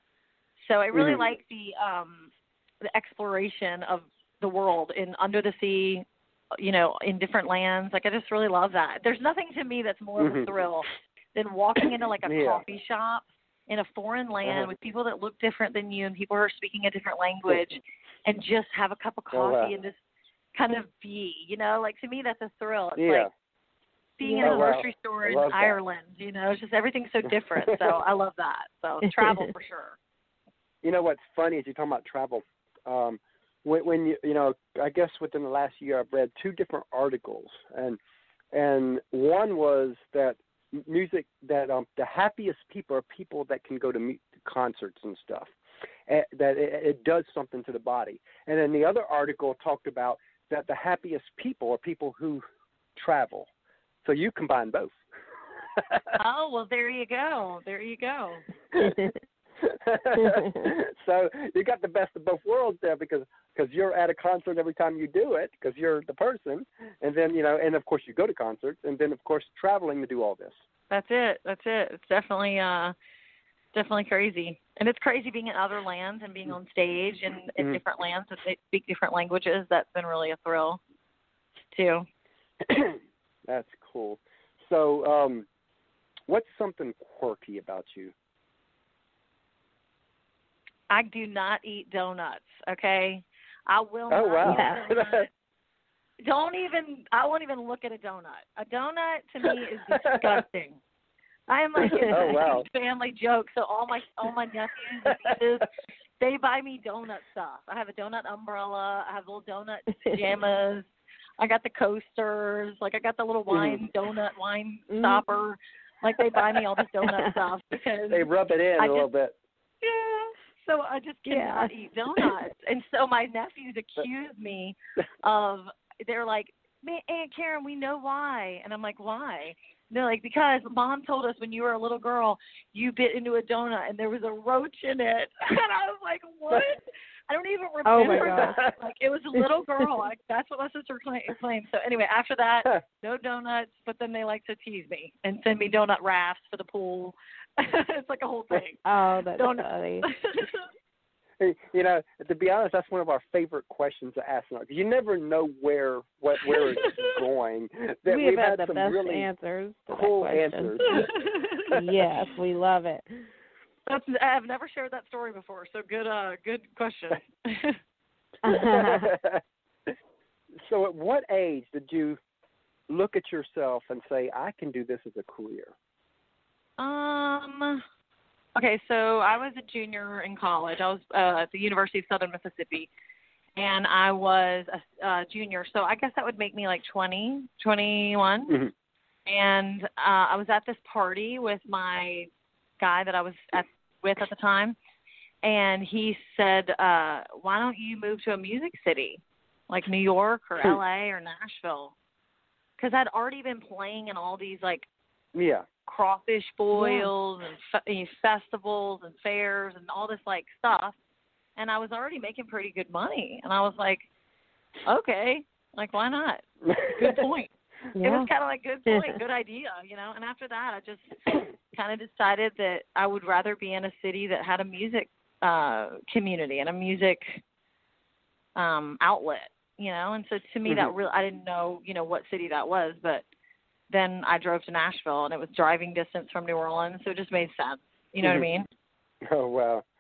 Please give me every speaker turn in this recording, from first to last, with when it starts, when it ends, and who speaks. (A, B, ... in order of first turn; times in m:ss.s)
0:00.6-0:02.3 A
0:00.9-0:01.3 B
0:02.8-0:20.0 A
0:10.2-0:10.5 B
0:12.2-0:12.6 B
0:14.4-0:14.7 B
0:19.3-0:19.7 B
0:20.5-0:23.3 A
0:23.0-0:23.3 B
0:24.2-0:30.0 A
0:24.2-0:24.7 C
0:24.4-0:25.8 B
0:27.6-0:27.9 B
0:29.0-0:29.5 C
0:30.8-0:38.0 B
0:38.5-0:45.5 B
0:46.1-0:52.4 B
0:53.0-0:53.5 B
0:54.0-0:54.9 B
0:56.2-0:58.4 A
0:58.8-0:59.0 B
0:59.6-1:10.6 B
1:00.2-1:00.7 C
1:10.9-1:13.0 A
1:13.7-1:20.8 A
1:21.7-1:22.1 A
1:22.6-1:25.5 B
1:26.3-1:28.1 B
1:30.9-1:35.3 A
1:34.1-1:35.3 B
1:34.4-1:34.8 C
1:36.2-1:40.8 A
1:39.9-1:40.2 B
1:41.5-1:45.7 A
1:41.8-1:42.7 B
1:42.0-1:42.3 C
1:46.2-1:50.9 A
1:51.4-1:59.1 A
1:53.5-1:53.8 B
1:54.9-1:55.2 C
1:57.0-1:57.3 C
1:58.1-1:59.3 B
1:59.8-2:28.8 A
2:01.3-2:01.7 C
2:17.8-2:18.6 C
2:18.0-2:18.7 B
2:28.8-2:30.1 C
2:29.4-2:30.6 A
2:31.4-2:39.3 B
2:38.1-2:41.0 C
2:39.9-2:41.1 B
2:41.2-2:41.6 A
2:41.7-2:43.3 C
2:43.9-2:47.8 A
2:48.4-2:49.1 C
2:48.5-2:50.0 B
2:50.6-2:52.2 B
2:52.9-2:55.7 B
2:56.8-2:57.8 A
2:58.6-3:02.9 A
3:03.6-3:08.6 A
3:09.3-3:12.3 A
3:12.8-3:14.8 A
3:15.4-3:21.9 A
3:22.8-3:24.9 A
3:25.4-3:25.7 B
3:25.9-3:31.0 A
3:26.8-3:27.1 C
3:31.6-3:34.1 A
3:34.9-3:36.4 A
3:36.6-3:37.2 B
3:37.0-3:47.4 A
3:38.0-3:38.3 C
3:38.9-3:39.2 C
3:48.6-3:53.2 A
3:50.7-3:50.9 B
3:53.9-3:58.7 A
3:58.2-3:58.5 B
3:59.2-3:59.8 B